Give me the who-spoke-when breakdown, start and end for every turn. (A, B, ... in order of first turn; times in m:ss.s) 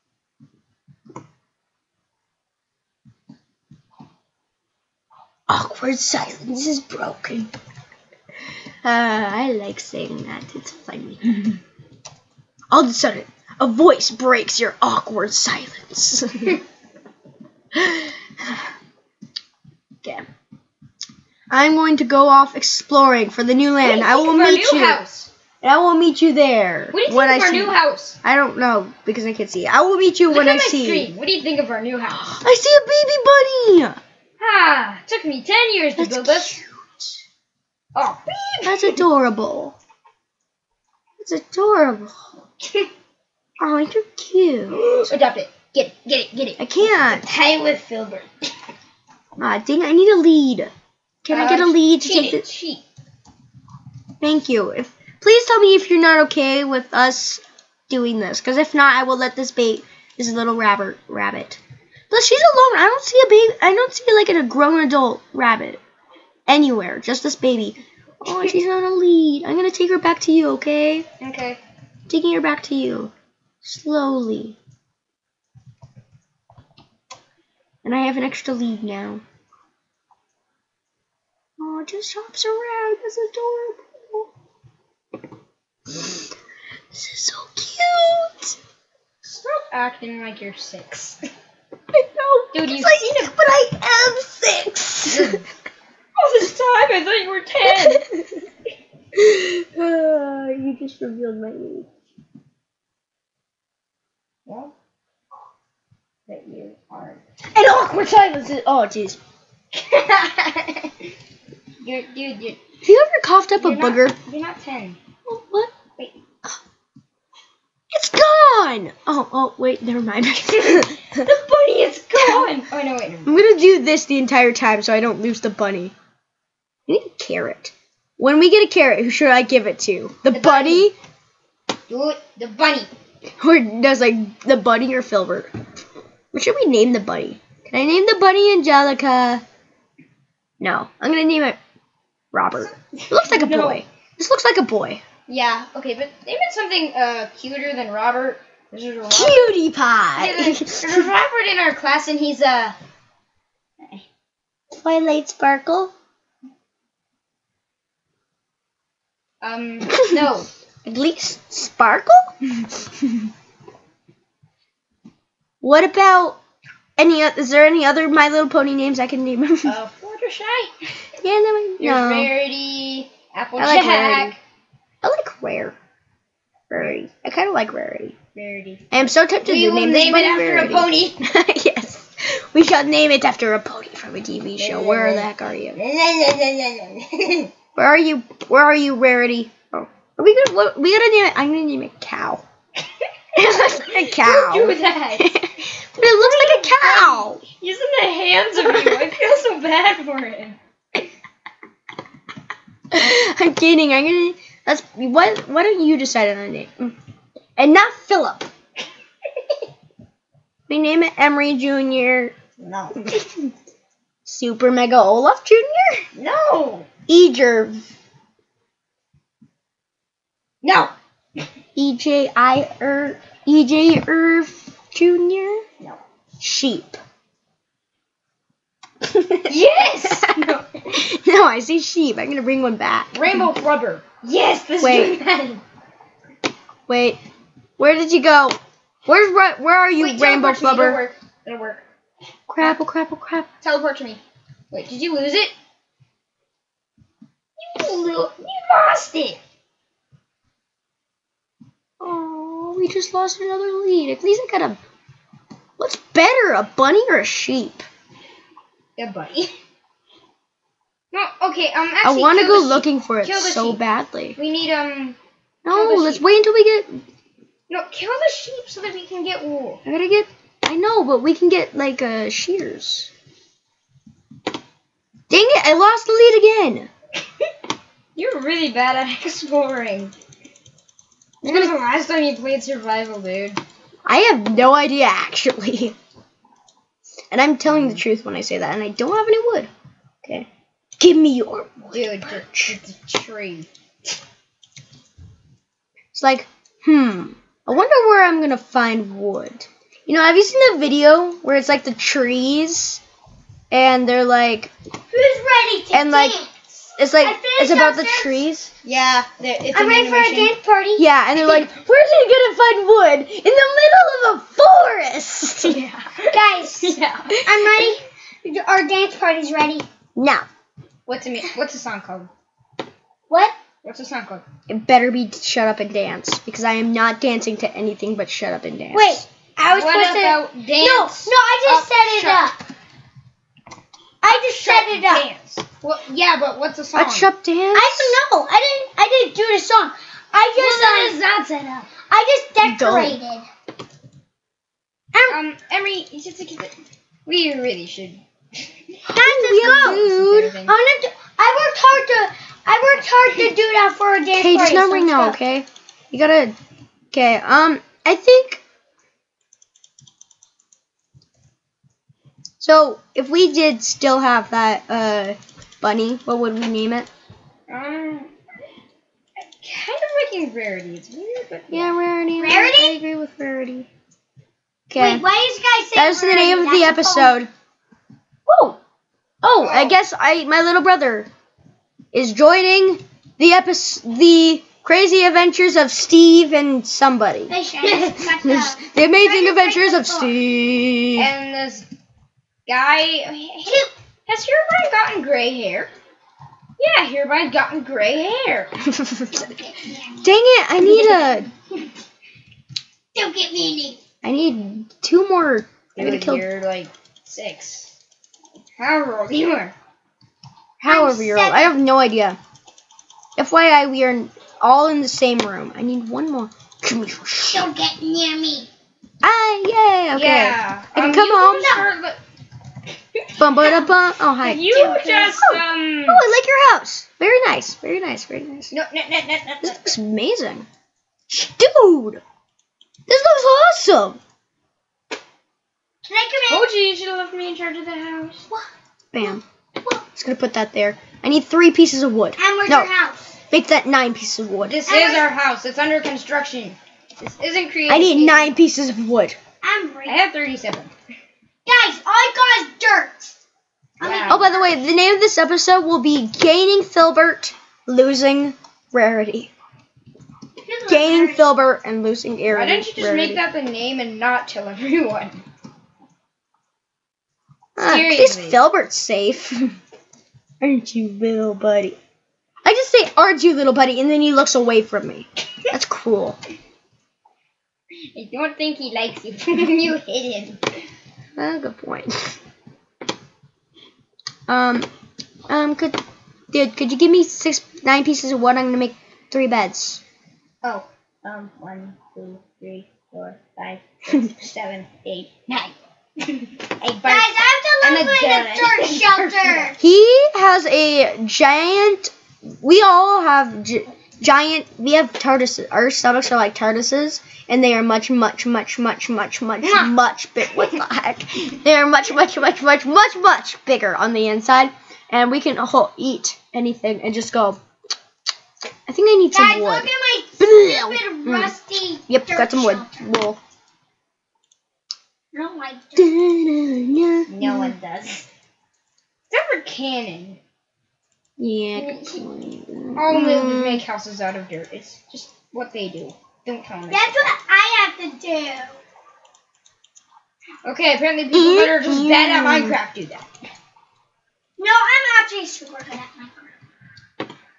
0:05.5-0:07.5 A
0:08.8-0:11.6 A
0:12.7-0:16.6 A
0:17.7-0:18.7 A
0:21.5-0:25.0 A
0:23.8-0:25.3 B
0:25.6-0:31.1 A
0:26.9-0:28.2 B
0:30.3-0:32.3 B
0:32.2-0:34.0 A
0:34.4-0:36.6 B
0:36.0-0:37.2 A
0:38.0-0:39.0 B
0:38.7-0:39.8 A
0:41.2-0:42.2 A
0:42.6-0:42.9 B
0:43.6-0:45.1 A
0:44.7-0:48.3 B
0:46.6-0:47.2 A
0:49.4-0:50.7 A
0:51.2-0:52.4 A
0:51.3-0:52.8 B
0:54.2-1:05.8 A
1:06.5-1:11.1 A
1:11.2-1:11.6 B
1:12.1-1:13.1 A
1:13.6-1:14.6 A
1:17.8-1:19.2 A
1:21.6-1:24.3 A
1:26.9-1:28.6 A
1:29.2-1:31.2 B
1:31.9-1:35.4 A
1:32.5-1:33.2 B
1:35.1-1:35.4 B
1:36.2-1:38.0 B
1:37.7-1:38.5 A
1:39.1-1:41.9 A
1:44.5-1:44.7 B
1:46.3-1:47.2 B
1:47.5-1:49.2 A
1:49.7-1:50.9 B
1:51.8-1:52.6 B
1:52.8-1:54.2 A
1:53.6-1:55.0 B
1:55.2-1:55.7 A
1:57.9-2:01.3 A
2:01.2-2:03.4 B
2:02.2-2:02.5 A
2:03.3-2:05.9 A
2:06.9-2:10.9 A
2:10.3-2:10.9 B
2:11.9-2:12.9 B
2:13.4-2:15.5 A
2:16.3-2:19.4 A
2:20.6-2:21.6 A
2:22.3-2:25.0 A
2:22.6-2:23.8 B
2:25.3-2:29.5 B
2:29.1-2:31.1 A
2:30.2-2:32.8 B
2:34.7-2:35.9 A
2:39.4-2:40.5 B
2:40.8-2:42.3 A
2:45.6-2:46.4 A
2:47.0-2:49.8 A
2:49.6-2:50.8 B
2:51.2-2:52.3 A
2:51.8-2:54.4 B
2:53.6-2:54.3 A
2:55.0-2:55.8 A
2:56.7-2:58.2 A
2:58.4-3:01.2 B
2:58.9-3:05.8 A
3:04.6-3:07.5 B
3:07.8-3:12.4 A
3:13.4-3:17.4 A
3:13.7-3:15.5 B
3:16.0-3:20.6 B
3:18.6-3:19.0 A
3:22.9-3:27.0 A
3:27.6-3:28.5 A
3:30.7-3:32.4 A
3:32.6-3:33.0 B
3:33.0-3:33.5 A
3:34.3-3:36.1 A
3:36.2-3:36.9 B
3:37.1-3:37.8 A
3:40.6-3:40.9 B
3:41.8-3:45.6 A
3:46.4-3:47.0 A
3:49.4-3:51.0 B
3:50.1-3:53.2 A
3:53.1-3:55.6 B
3:54.8-3:55.2 A
3:56.9-3:57.2 A
3:57.8-4:01.0 A
4:00.0-4:01.8 B
4:02.5-4:03.5 A
4:03.6-4:05.5 B
4:07.6-4:09.4 B
4:12.0-4:14.8 A
4:15.8-4:17.9 A
4:19.0-4:19.5 B
4:21.1-4:23.8 B
4:22.0-4:24.4 A
4:24.4-4:25.2 B
4:25.6-4:27.0 A
4:25.7-4:26.2 B
4:27.7-4:29.8 B
4:29.9-4:33.1 A
4:35.3-4:36.9 A
4:38.2-4:40.1 B
4:41.4-4:41.7 A
4:41.4-4:43.6 B
4:44.0-4:46.0 A
4:47.3-4:49.7 A
4:47.7-4:48.0 B
4:51.0-4:52.8 A
4:51.9-4:53.7 B
4:56.1-5:03.0 A
5:03.7-5:04.7 A
5:05.1-5:06.5 C
5:05.9-5:06.4 A
5:07.0-5:08.7 A
5:07.2-5:08.4 C
5:08.8-5:10.6 B
5:09.7-5:11.1 C
5:11.0-5:15.9 A
5:15.6-5:17.4 B
5:16.3-5:19.9 C
5:17.5-5:17.9 A
5:20.2-5:20.5 A
5:21.1-5:22.3 B
5:23.3-5:23.6 C
5:23.8-5:24.4 B
5:24.7-5:29.2 A
5:28.9-5:32.6 C
5:29.7-5:32.5 B
5:34.2-5:35.3 C
5:34.2-5:37.3 B
5:37.0-5:38.2 A
5:37.7-5:41.2 C
5:40.6-5:41.9 B
5:42.1-5:43.5 C
5:42.6-5:43.2 A
5:45.1-5:45.4 C
5:45.3-5:46.7 B
5:47.3-5:49.0 B
5:49.1-5:50.5 A
5:49.1-5:50.0 C
5:49.6-5:50.7 B
5:50.6-5:55.4 C
5:54.4-5:56.6 A
5:57.1-5:58.6 A
6:02.6-6:07.1 A
6:07.7-6:08.3 B
6:09.4-6:12.0 B
6:11.7-6:13.9 A
6:12.4-6:13.0 C
6:14.9-6:15.2 A
6:15.0-6:17.4 C
6:16.0-6:17.5 A
6:18.5-6:18.8 B
6:19.4-6:21.3 A
6:19.6-6:20.0 B
6:22.1-6:27.5 A
6:27.5-6:30.4 C
6:27.8-6:28.3 B
6:28.4-6:31.3 A
6:31.2-6:31.9 B
6:32.7-6:35.9 B
6:33.7-6:33.9 C
6:36.8-6:38.8 B
6:39.0-6:39.3 A
6:39.4-6:40.3 C
6:40.2-6:41.5 A
6:43.2-6:44.0 C
6:44.2-6:46.4 A
6:46.0-6:47.9 B
6:48.8-6:49.8 B
6:50.8-6:52.4 A
6:50.8-6:51.7 C
6:53.4-6:57.7 A
6:57.5-6:58.7 C
6:59.2-7:01.8 A
7:00.1-7:02.2 B
7:03.4-7:04.8 A
7:04.4-7:06.2 B
7:04.7-7:05.4 C
7:05.4-7:08.7 A
7:08.7-7:10.0 B
7:09.6-7:10.7 A
7:11.3-7:12.2 A
7:13.1-7:14.2 A
7:16.0-7:16.7 C
7:16.5-7:18.5 B
7:19.1-7:19.4 A
7:20.1-7:22.9 A
7:22.4-7:23.4 C
7:23.5-7:24.8 A
7:24.6-7:28.5 B
7:24.9-7:25.3 C
7:27.9-7:29.4 A
7:29.6-7:30.2 C
7:30.1-7:30.9 B
7:31.7-7:33.3 C
7:34.0-7:34.8 C
7:34.0-7:34.4 B
7:34.3-7:39.5 A
7:40.6-7:41.5 C
7:40.9-7:43.4 A
7:42.5-7:45.4 B
7:47.8-7:49.7 A
7:47.8-7:48.6 B
7:50.6-7:52.0 A
7:52.6-7:56.4 A
7:58.1-8:00.6 B
8:01.4-8:02.4 A
8:04.5-8:04.9 A
8:05.5-8:06.0 A
8:06.5-8:10.0 A
8:10.6-8:19.7 B
8:17.0-8:19.8 C
8:19.8-8:37.6 A
8:29.6-8:29.9 B
8:38.9-8:41.5 A
8:39.3-8:43.1 C
8:42.1-8:43.4 A
8:45.3-8:46.2 C
8:46.0-8:47.7 A
8:47.3-8:48.3 B
8:49.3-8:50.4 B
8:51.4-8:53.8 A
8:51.8-8:52.2 B
8:53.0-8:57.3 B
8:56.9-8:58.8 C
9:00.6-9:03.3 B
9:01.3-9:02.8 A
9:04.6-9:06.5 C